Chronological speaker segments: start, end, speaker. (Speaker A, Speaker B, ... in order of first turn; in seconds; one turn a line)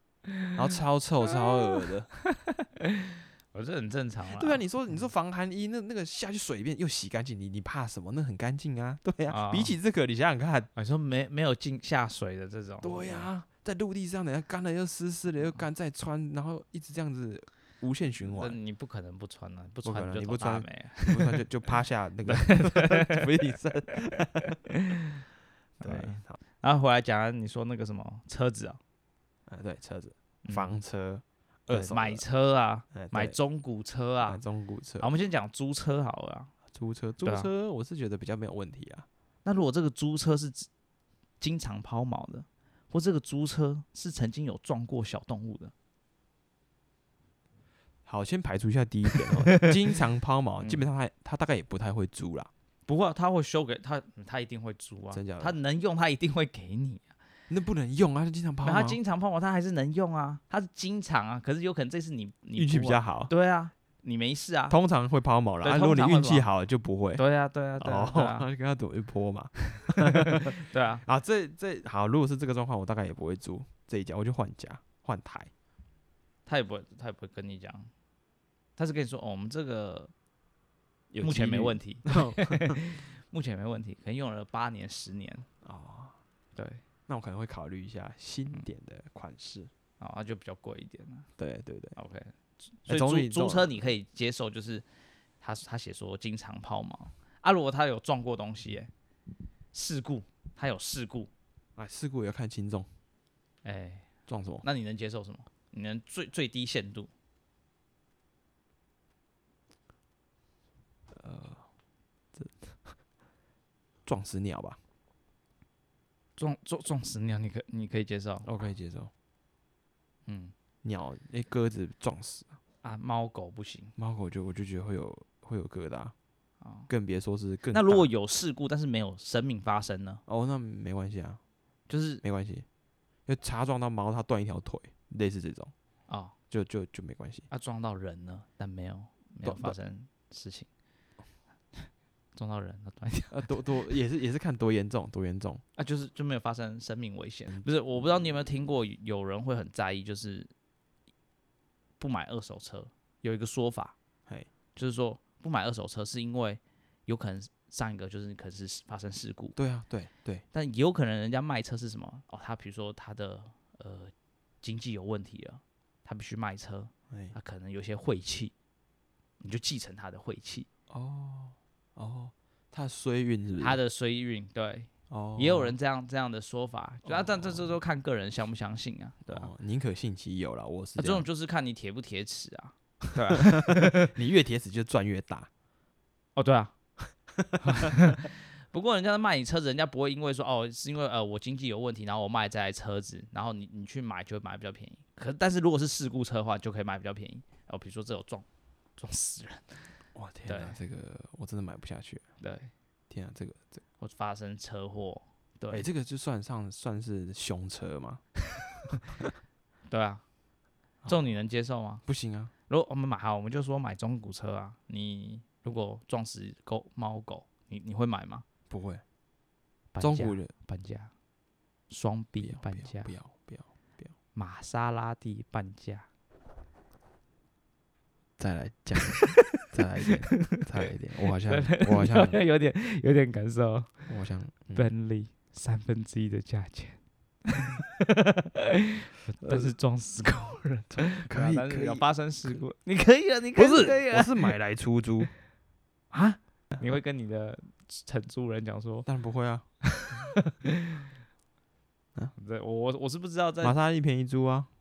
Speaker A: 0.5-2.1
Speaker B: 2.3-4.6
Speaker A: 4.3-10.7
Speaker B: 9.3-9.8
Speaker B: 10.8-13.3
Speaker A: 12.8-18.6
Speaker B: 18.3-21.4
Speaker A: 19.8-24.6
Speaker B: 22.3-23.3
Speaker B: 24.4-25.1
Speaker A: 25.8-26.4
Speaker B: 25.8-28.8
Speaker A: 29.5-32.2
Speaker B: 30.4-30.8
Speaker B: 31.7-34.4
Speaker A: 32.9-33.4
Speaker A: 34.2-35.1
Speaker B: 35.0-36.5
Speaker A: 36.7-39.0
Speaker B: 37.2-37.5
Speaker B: 39.4-40.7
Speaker B: 41.4-45.7
Speaker A: 48.0-52.5
Speaker B: 49.5-49.7
Speaker B: 50.6-50.9
Speaker B: 52.9-57.1
Speaker A: 55.1-55.6
Speaker A: 57.5-59.0
Speaker B: 58.6-64.8
Speaker A: 62.5-63.3
Speaker A: 64.7-67.2
Speaker B: 65.6-66.5
Speaker B: 67.2-68.5
Speaker A: 67.8-75.5
Speaker B: 69.8-71.0
Speaker B: 76.5-77.9
Speaker B: 78.8-80.1
Speaker A: 81.1-82.8
Speaker B: 81.2-85.5
Speaker A: 85.6-86.2
Speaker B: 86.5-86.8
Speaker A: 87.1-89.7
Speaker B: 90.0-91.3
Speaker A: 91.4-92.0
Speaker B: 92.0-94.8
Speaker A: 92.9-93.7
Speaker B: 95.4-98.9
Speaker B: 99.7-101.3
Speaker A: 101.8-102.9
Speaker B: 103.6-107.1
Speaker A: 104.3-104.6
Speaker A: 111.1-111.6
Speaker A: 112.3-112.9
Speaker A: 114.0-114.8
Speaker B: 116.4-118.5
Speaker A: 118.4-119.1
Speaker B: 120.3-120.5
Speaker A: 120.8-122.5
Speaker B: 122.8-123.9
Speaker A: 124.0-126.1
Speaker B: 126.6-126.9
Speaker A: 126.9-128.1
Speaker B: 127.7-130.2
Speaker A: 130.3-131.4
Speaker B: 131.9-132.2
Speaker A: 132.2-132.7
Speaker A: 133.3-135.7
Speaker B: 136.1-136.3
Speaker A: 136.5-137.5
Speaker B: 137.5-140.7
Speaker A: 139.4-139.7
Speaker B: 141.7-143.6
Speaker A: 143.3-145.6
Speaker B: 145.8-150.5
Speaker A: 147.5-148.3
Speaker B: 152.0-153.9
Speaker B: 154.8-159.6
Speaker A: 159.6-160.4
Speaker B: 160.5-168.5
Speaker A: 167.1-167.3
Speaker B: 169.4-170.7
Speaker A: 170.9-173.8
Speaker B: 173.6-179.5
Speaker A: 175.1-175.8
Speaker A: 177.0-177.8
Speaker A: 179.3-181.2
Speaker B: 181.0-184.1
Speaker A: 183.3-185.5
Speaker B: 186.3-186.7
Speaker A: 187.3-188.1
Speaker B: 187.6-198.4
Speaker B: 199.0-199.9
Speaker A: 200.1-202.2
Speaker B: 200.5-200.8
Speaker B: 202.4-202.7
Speaker A: 203.1-203.8
Speaker B: 204.0-205.9
Speaker A: 205.7-208.2
Speaker B: 209.9-210.2
Speaker B: 211.1-212.0
Speaker A: 212.1-212.5
Speaker B: 212.7-218.4
Speaker A: 218.7-219.0
Speaker B: 219.9-221.1
Speaker A: 220.0-220.5
Speaker B: 221.9-223.1
Speaker A: 222.4-224.1
Speaker B: 224.3-226.1
Speaker A: 228.4-232.4
Speaker B: 229.0-230.6
Speaker B: 231.2-234.1
Speaker A: 234.1-234.9
Speaker B: 234.7-244.5
Speaker A: 239.4-239.7
Speaker A: 240.9-242.6
Speaker A: 243.6-245.3
Speaker B: 246.1-249.1
Speaker A: 249.1-249.6
Speaker B: 249.8-251.1
Speaker B: 252.3-253.8
Speaker A: 253.6-254.7